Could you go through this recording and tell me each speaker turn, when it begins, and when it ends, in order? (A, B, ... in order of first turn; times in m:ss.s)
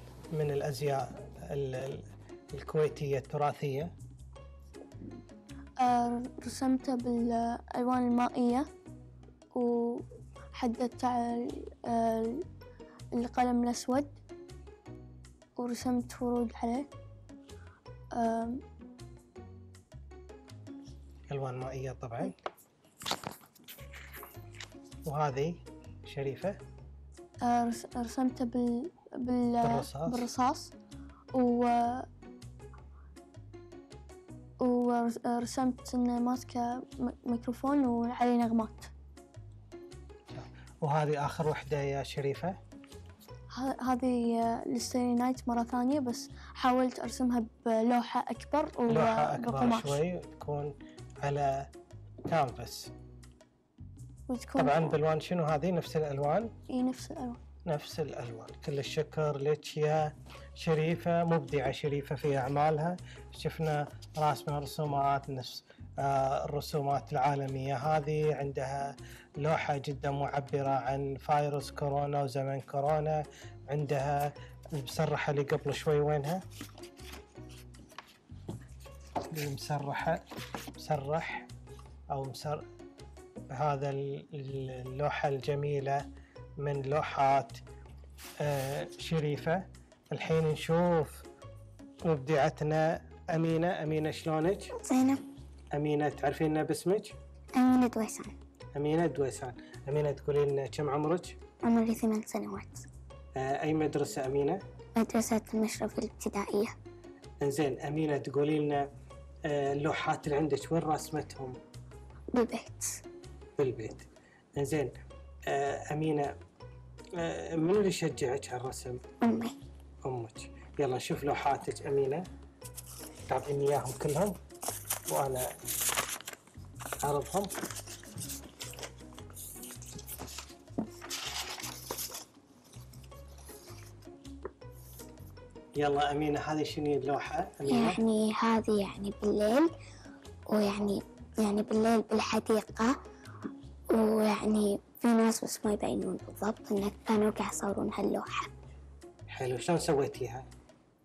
0:00.3-0:03.9 A
0:05.8-0:08.7 B
0:09.5-0:12.4 B
0:13.1-0:14.2 B
0:15.6-0:16.9 B
0:18.1-0:18.6 B
0:21.3-0:22.4 A
0:25.0-0:26.6 A
0:27.4-0:30.7 B
0:29.6-0:30.3 A
0:31.3-0:32.1 B
0:34.6-0:38.9 B
0:40.3-0:42.6 A
0:43.5-0:50.0 B
0:48.9-0:51.7 A
0:52.3-0:52.9 A
0:54.3-0:54.9 B
0:54.6-0:56.5 A
0:56.7-0:57.4 B
0:57.6-1:16.4 A
1:19.3-1:21.5 A
1:22.1-1:22.6 A
1:23.5-1:26.0 A
1:26.6-1:27.6 A
1:28.4-1:31.2 A
1:32.0-1:34.8 A
1:34.8-1:35.2 C
1:35.7-1:37.2 A
1:37.5-1:38.3 C
1:38.7-1:41.4 A
1:41.6-1:42.8 C
1:43.4-1:44.6 A
1:44.9-1:46.8 C
1:47.4-1:48.8 A
1:49.4-1:51.6 A
1:52.3-1:53.0 C
1:53.6-1:54.9 A
1:55.5-1:56.3 A
1:57.1-1:59.0 A
1:59.2-1:59.5 C
2:00.0-2:02.2 A
2:03.3-2:04.4 A
2:05.1-2:05.5 A
2:07.0-2:07.5 A
2:15.8-2:18.0 A
2:17.7-2:19.7 C
2:20.5-2:22.9 C
2:23.9-2:28.5 C
2:29.3-2:30.5 A